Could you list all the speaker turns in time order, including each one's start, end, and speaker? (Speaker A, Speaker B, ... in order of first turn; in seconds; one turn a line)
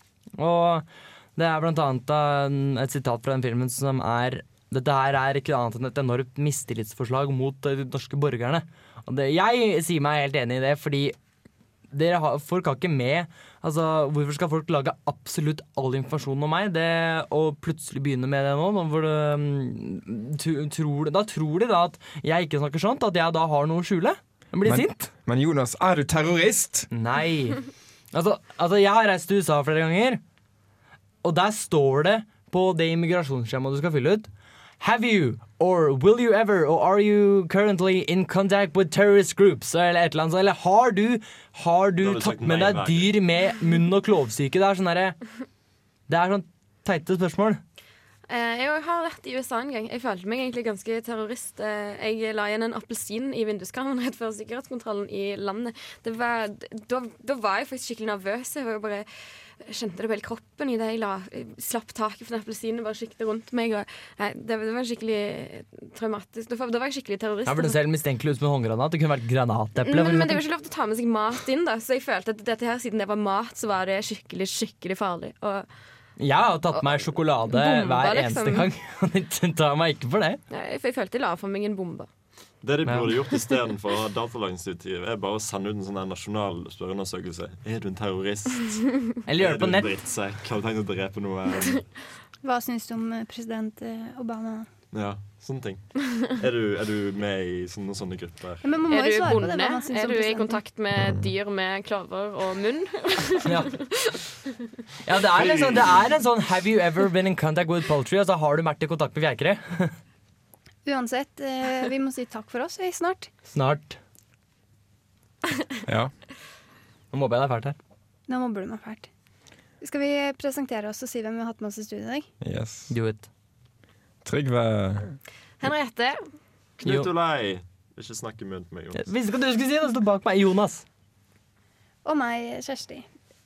Speaker A: 0.4-0.8
Speaker A: 1.4-11.1
Speaker A: 11.9-25.1
Speaker B: 24.6-26.9
Speaker A: 26.9-30.2
Speaker A: 31.2-34.3
Speaker A: 34.8-45.1
Speaker C: 42.0-43.1
Speaker A: 46.1-47.6
Speaker D: 48.3-59.1
Speaker D: 59.6-67.8
Speaker A: 67.5-70.4
Speaker D: 69.8-75.7
Speaker A: 76.2-80.4
Speaker D: 76.7-78.7
Speaker D: 80.5-82.1
Speaker C: 82.6-91.8
Speaker A: 89.3-89.9
Speaker E: 92.4-94.7
Speaker C: 94.9-98.8
Speaker E: 98.6-100.6
Speaker D: 98.9-104.2
Speaker A: 103.4-103.8
Speaker A: 105.0-109.9
Speaker C: 105.3-106.0
Speaker E: 110.8-113.3
Speaker A: 113.5-114.0
Speaker B: 115.8-116.1
Speaker A: 117.1-117.8
Speaker E: 118.3-119.1
Speaker E: 119.8-122.3
Speaker B: 122.4-122.9
Speaker A: 122.9-123.3
Speaker B: 124.2-125.1
Speaker D: 125.6-126.2
Speaker C: 126.8-129.0
Speaker A: 126.8-127.1
Speaker A: 128.9-130.8
Speaker E: 132.0-133.1